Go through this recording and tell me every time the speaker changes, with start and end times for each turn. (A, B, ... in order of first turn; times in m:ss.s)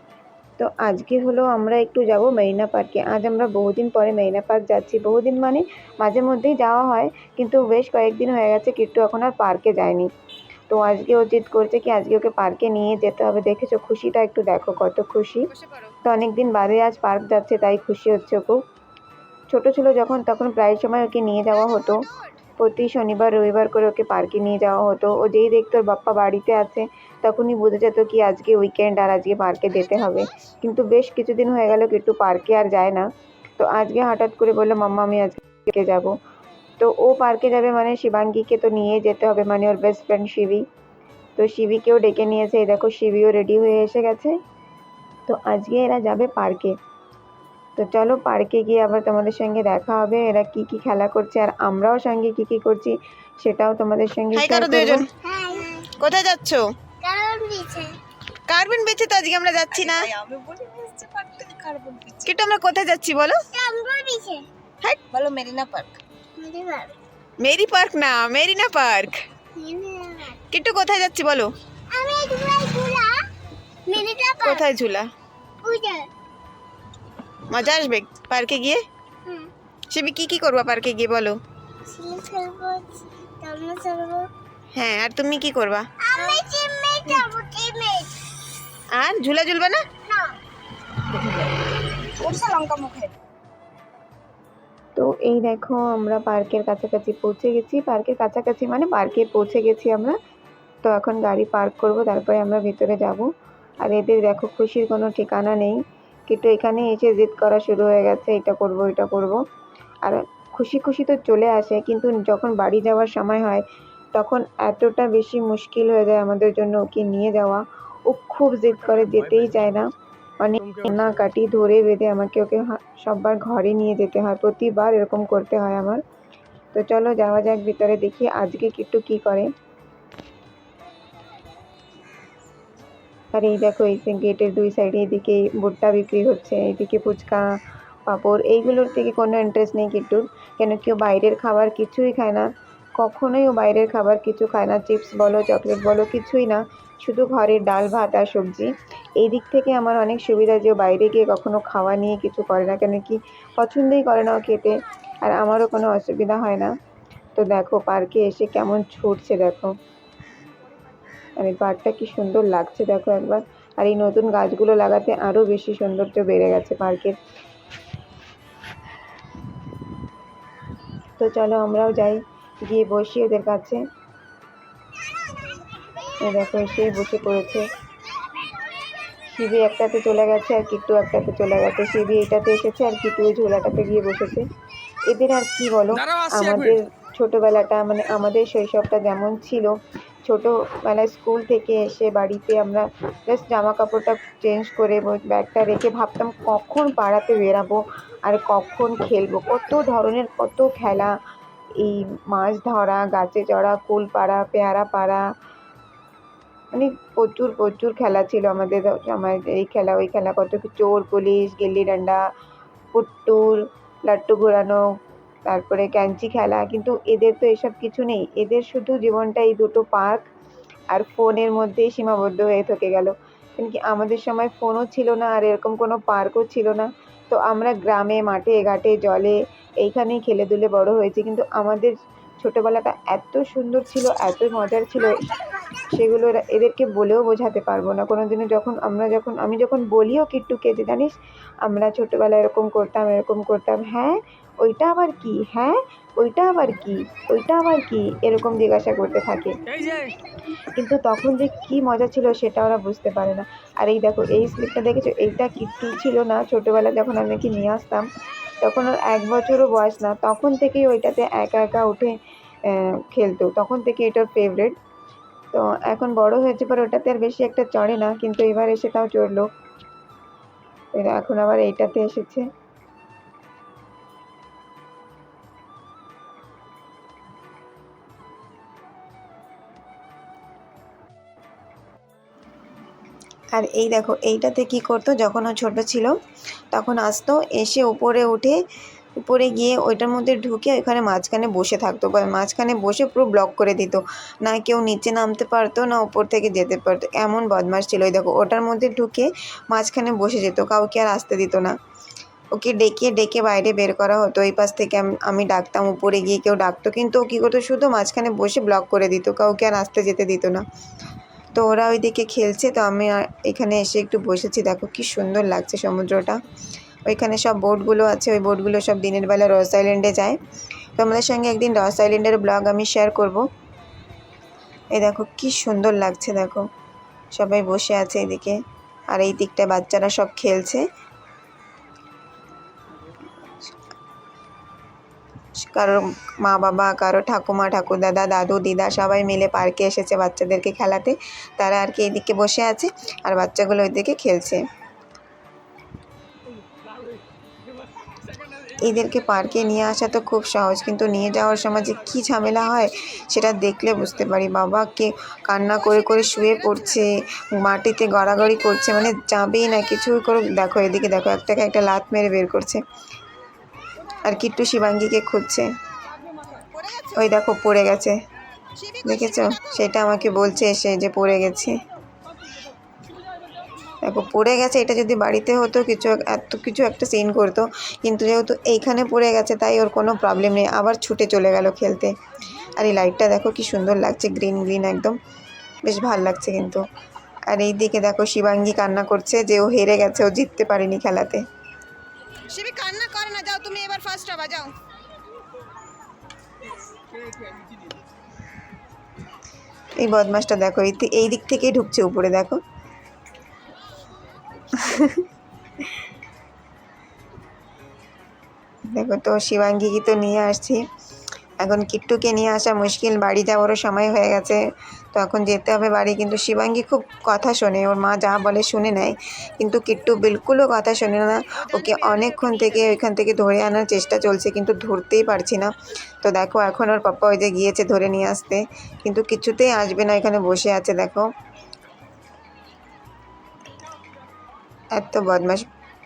0:00.6-0:10.1 A
0:10.7-0:15.5 A
0:15.6-0:16.0 B
0:16.0-0:18.6 A
0:19.5-0:36.2 A
0:21.8-0:22.4 B
0:36.8-0:40.6 A
0:41.4-0:44.4 A
0:45.3-0:46.8 A
0:47.8-0:55.1 A
0:54.4-0:55.1 B
0:55.2-0:55.9 C
0:56.0-0:56.7 B
0:57.0-0:58.0 C
0:58.5-1:00.1 B
0:59.7-1:02.3 D
1:02.3-1:03.5 B
1:03.5-1:04.5 C
1:05.1-1:06.0 D
1:06.4-1:07.0 C
1:07.4-1:09.2 B
1:09.6-1:10.4 C
1:10.5-1:11.5 B
1:11.9-1:13.3 C
1:13.9-1:14.7 C
1:14.4-1:15.1 B
1:15.6-1:16.1 C
1:17.5-1:18.8 B
1:19.2-1:19.5 C
1:19.9-1:21.4 B
1:21.9-1:24.3 C
1:24.7-1:25.9 B
1:26.0-1:28.2 C
1:28.9-1:29.8 B
1:30.1-1:30.4 C
1:31.1-1:31.5 D
1:32.2-1:33.1 D
1:35.0-1:40.2 A
1:40.8-1:43.3 A
1:43.8-1:49.4 A
1:50.0-2:06.0 A
2:06.7-2:09.5 A
2:13.3-2:17.5 A
2:18.1-2:36.8 A
2:37.4-2:39.8 A
2:41.4-2:47.2 A
2:51.2-2:53.8 A
2:56.2-2:57.7 A
2:59.3-3:04.5 A
3:05.1-3:21.2 A
3:21.8-3:25.2 A
3:26.7-3:32.2 A
3:32.9-3:34.9 A
3:35.5-3:40.3 A
3:40.9-3:55.3 A
3:55.8-4:09.6 A
4:10.7-4:18.1 A
4:18.6-4:24.8 A
4:25.5-4:29.5 A
4:30.9-4:32.5 A
4:43.6-4:46.2 A
4:46.7-4:48.6 A
4:49.2-5:01.8 A
5:02.5-5:10.6 A
5:11.5-5:16.4 A
5:17.1-5:20.4 A
5:21.0-5:23.4 A
5:24.9-5:26.7 A
5:27.3-5:30.9 A
5:35.6-5:44.6 A
5:48.8-6:02.8 A
6:04.2-6:05.7 A
6:06.6-6:07.2 B
6:07.2-6:08.2 A
6:08.7-6:09.8 B
6:09.0-6:11.8 A
6:14.0-6:25.2 A
6:25.8-6:26.9 A
6:27.5-6:31.5 A
6:32.5-6:34.7 B
6:40.0-6:42.6 A
6:44.7-6:45.2 A
6:48.9-6:50.9 A
6:51.6-7:11.3 A
7:01.7-7:02.7 B
7:14.9-7:15.7 A